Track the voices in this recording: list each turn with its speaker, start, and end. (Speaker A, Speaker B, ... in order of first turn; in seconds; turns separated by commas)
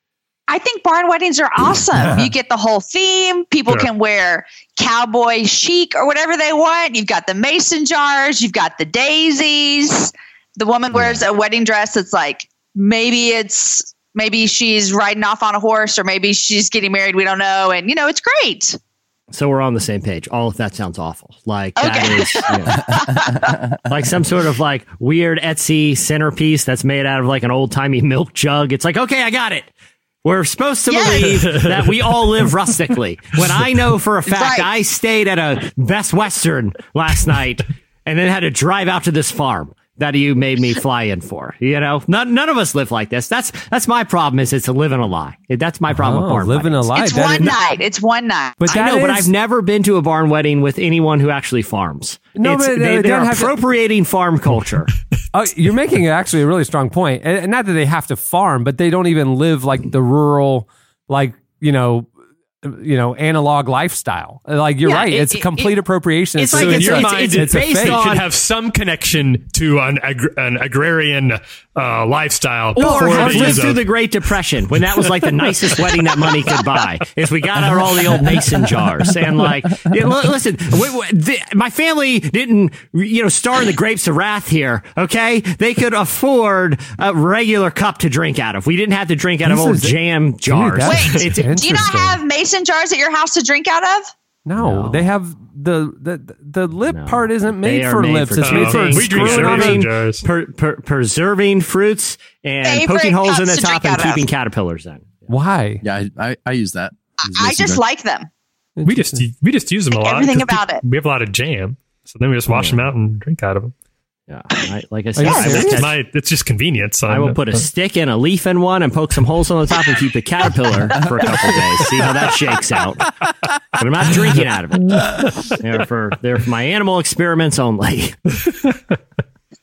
Speaker A: 0.5-18.8, Speaker B: 10.9-11.2, Speaker B: 19.3-22.8, Speaker A: 21.8-23.5, Speaker B: 23.9-29.7, Speaker B: 30.2-47.5, Speaker A: 30.9-31.5, Speaker A: 34.3-34.7, Speaker C: 45.9-47.6, Speaker A: 46.9-48.7, Speaker C: 48.6-49.3, Speaker B: 48.7-54.9, Speaker C: 52.4-53.6, Speaker C: 55.3-62.1, Speaker C: 62.6-68.0, Speaker B: 64.8-65.7, Speaker B: 66.4-68.2, Speaker D: 66.5-74.0, Speaker B: 72.8-91.2, Speaker A: 72.8-73.1, Speaker C: 73.2-73.6, Speaker D: 75.9-76.3, Speaker C: 89.4-92.2, Speaker A: 90.8-94.1, Speaker C: 94.5-99.9, Speaker B: 94.6-95.0, Speaker B: 96.9-105.3, Speaker D: 98.4-100.2, Speaker A: 102.7-104.2, Speaker C: 105.3-105.8, Speaker E: 105.8-107.8, Speaker A: 107.2-108.3, Speaker C: 108.8-109.3, Speaker D: 108.8-113.7, Speaker A: 110.0-110.8, Speaker B: 112.5-112.9, Speaker B: 114.3-116.0, Speaker C: 115.2-115.9, Speaker A: 115.2-115.6, Speaker D: 115.6-117.7, Speaker B: 117.1-123.0, Speaker B: 123.8-125.0, Speaker D: 124.9-125.5, Speaker B: 125.6-128.2